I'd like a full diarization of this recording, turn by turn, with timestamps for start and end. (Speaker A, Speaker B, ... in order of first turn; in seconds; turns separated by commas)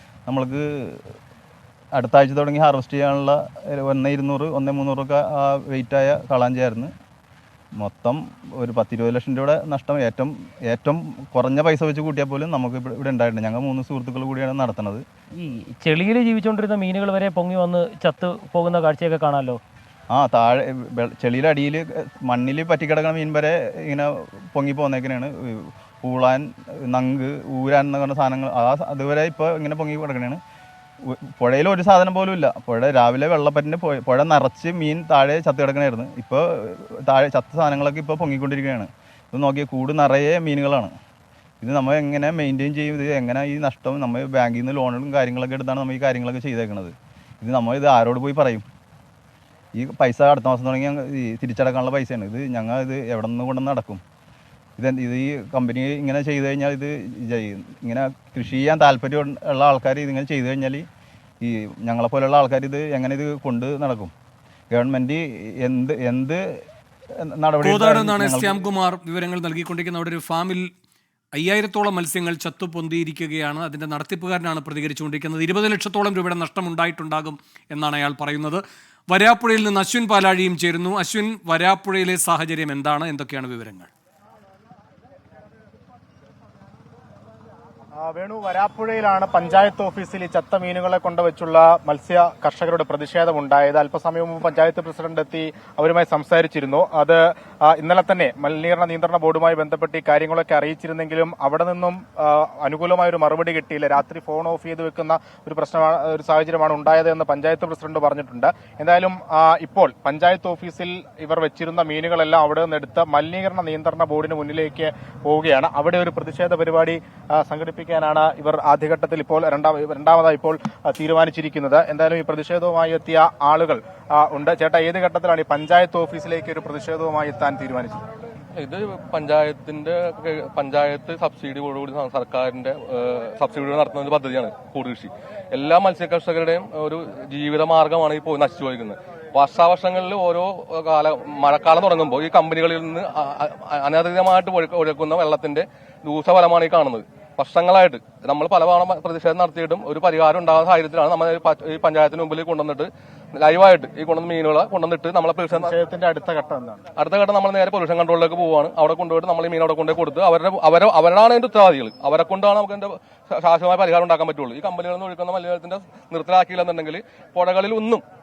Speaker A: 0.3-1.1, Speaker A: 1.9-6.9, Speaker A: 7.8-15.0, Speaker B: 15.4-19.6, Speaker A: 20.1-30.4, Speaker A: 31.0-40.9, Speaker A: 41.6-48.6, Speaker A: 49.8-54.0, Speaker A: 54.8-60.8, Speaker A: 61.4-64.1, Speaker A: 64.7-66.6, Speaker A: 67.2-68.6, Speaker C: 67.6-70.7, Speaker C: 71.3-83.9, Speaker D: 88.0-128.0, Speaker E: 128.6-155.7, Speaker D: 155.5-156.8, Speaker E: 156.9-168.0